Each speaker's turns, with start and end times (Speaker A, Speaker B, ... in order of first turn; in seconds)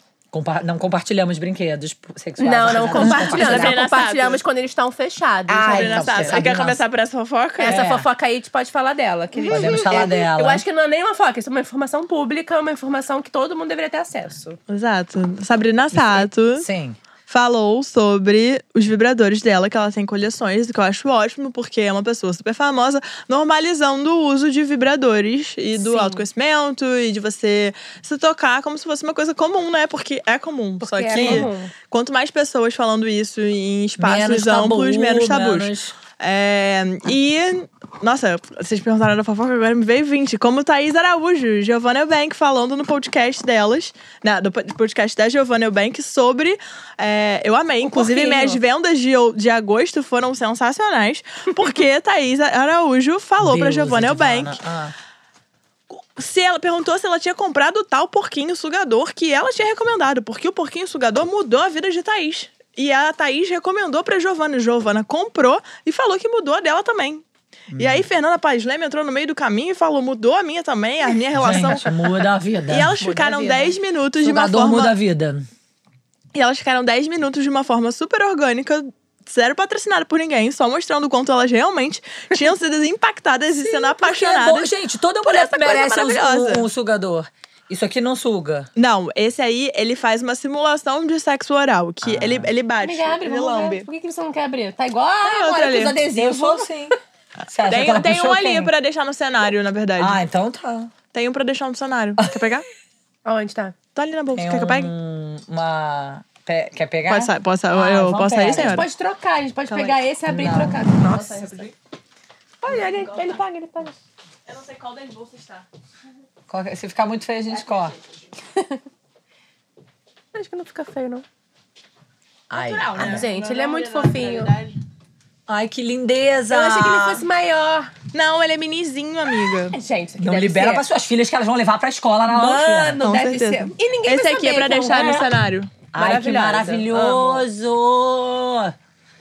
Speaker A: 0.3-3.8, 5.5-6.8, 7.7-8.1, 9.5-10.6, 16.5-17.0, 31.1-31.5, 34.0-35.9, 53.4-54.9, 67.7-68.0, 71.3-73.0, 74.2-75.5, 84.0-88.7, 92.0-92.5, 96.1-96.9, 97.5-98.7, 100.0-100.9, 104.3-108.8, 110.2-110.8, 116.5-118.0, 122.5-123.2, 125.5-127.2, 130.2-133.0, 135.9-138.7
Speaker B: 2.4-6.4, 7.6-14.6, 25.8-26.2, 30.8-31.7, 47.8-48.6, 73.0-73.8, 92.8-96.7, 103.2-103.7, 108.5-111.7, 112.6-114.0, 120.3-121.2, 123.0-124.5, 126.5-127.9, 129.7-130.8, 132.3-135.3, 135.9-137.4
Speaker C: 2.9-4.4, 5.7-7.8, 9.3-10.0, 14.7-16.7, 17.3-54.6, 56.1-67.2, 67.8-72.1, 72.7-74.9, 76.3-84.7, 85.3-86.7, 88.8-93.9, 95.2-96.0, 97.7-100.2, 101.1-102.7, 103.9-104.9, 107.1-108.8, 109.7-110.0, 111.0-111.7, 112.7-113.4, 114.5-115.6, 122.5-124.7, 128.1-129.8, 133.0-135.8